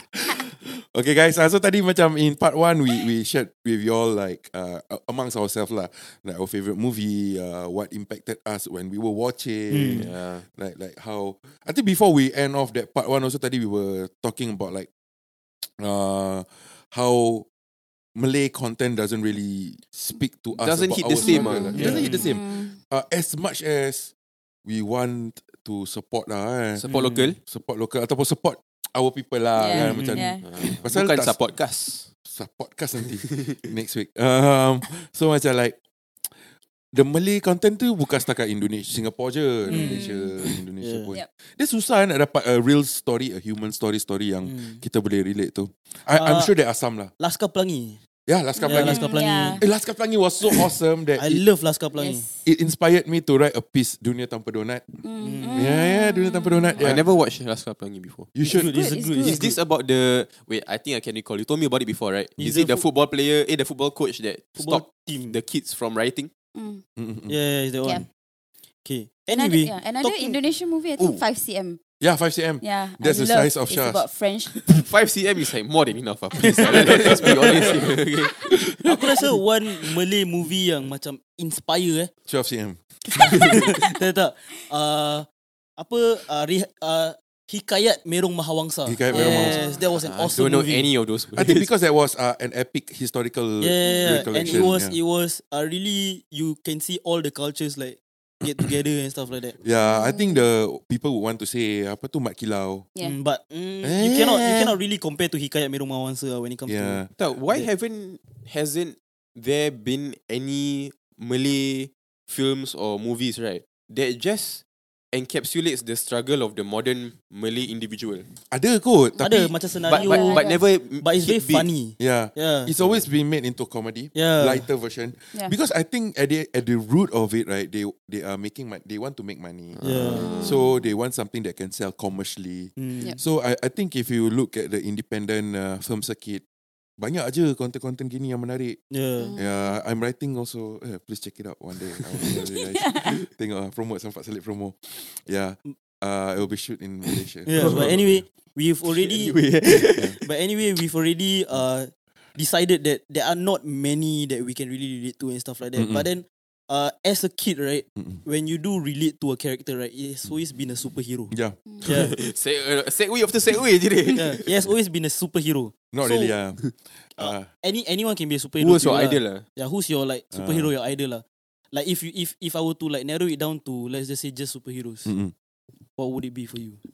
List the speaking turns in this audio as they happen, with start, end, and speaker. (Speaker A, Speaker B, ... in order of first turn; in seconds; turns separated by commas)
Speaker A: 0.3-14.9, Speaker B: 9.7-10.1, Speaker C: 9.9-10.4, Speaker A: 15.6-17.4, Speaker A: 18.1-24.1, Speaker C: 20.6-22.1, Speaker D: 21.2-22.8, Speaker B: 21.7-22.3, Speaker A: 24.6-26.9, Speaker C: 26.8-27.4, Speaker B: 26.8-27.3, Speaker A: 27.4-31.4, Speaker D: 29.6-30.4, Speaker B: 29.7-30.3, Speaker C: 30.4-32.1, Speaker A: 32.2-35.8, Speaker A: 36.9-47.1, Speaker D: 39.7-40.3, Speaker B: 39.7-40.0, Speaker B: 40.8-41.1, Speaker B: 44.4-44.8, Speaker B: 46.1-46.5, Speaker B: 47.2-48.0, Speaker A: 48.3-51.4, Speaker D: 48.6-49.6, Speaker B: 48.6-49.6, Speaker B: 51.2-52.2, Speaker D: 52.0-52.3, Speaker A: 52.4-55.0, Speaker D: 55.0-56.9, Speaker B: 55.2-55.7, Speaker A: 55.5-57.0, Speaker C: 56.8-58.3, Speaker A: 58.3-58.7, Speaker B: 58.4-59.5, Speaker D: 58.7-59.4, Speaker C: 59.2-66.3, Speaker B: 62.4-62.8, Speaker B: 64.5-65.4, Speaker D: 66.5-66.8, Speaker A: 67.0-67.3, Speaker B: 67.3-68.0, Speaker B: 68.8-70.3, Speaker D: 69.3-71.8, Speaker C: 71.0-71.2, Speaker A: 72.0-74.0, Speaker D: 72.6-74.7, Speaker C: 74.6-78.5, Speaker A: 76.8-77.7, Speaker A: 78.4-79.0, Speaker B: 78.8-82.1, Speaker A: 82.3-83.5, Speaker B: 83.2-85.3, Speaker C: 83.3-83.6, Speaker B: 85.8-90.9, Speaker A: 88.8-89.7, Speaker D: 89.1-89.8, Speaker C: 89.9-91.7, Speaker A: 91.3-95.0, Speaker B: 93.6-99.6, Speaker D: 93.8-94.7, Speaker A: 99.6-102.9, Speaker D: 99.8-100.4, Speaker B: 103.0-107.7, Speaker A: 103.8-104.7, Speaker A: 106.7-107.1, Speaker C: 107.2-118.3, Speaker A: 118.5-119.5, Speaker B: 119.2-120.5, Speaker C: 119.9-121.7, Speaker D: 119.9-120.6, Speaker B: 121.0-122.7, Speaker A: 122.0-136.4, Speaker B: 124.1-124.7, Speaker C: 129.8-130.5, Speaker B: 129.8-130.4, Speaker D: 130.2-130.6, Speaker B: 132.8-133.2, Speaker A: 137.0-138.8, Speaker B: 138.9-139.3, Speaker D: 139.2-139.8, Speaker A: 139.3-148.2, Speaker D: 142.3-143.2, Speaker B: 147.5-149.4, Speaker C: 147.5-148.0, Speaker C: 148.9-150.2, Speaker B: 150.2-161.3, Speaker A: 155.8-156.1, Speaker A: 161.3-162.1, Speaker B: 161.8-162.1, Speaker C: 161.8-164.4, Speaker B: 164.1-166.4, Speaker A: 165.9-167.5, Speaker B: 167.2-175.1, Speaker C: 168.6-169.4, Speaker A: 170.3-170.7, Speaker A: 175.0-175.3, Speaker B: 176.0-176.8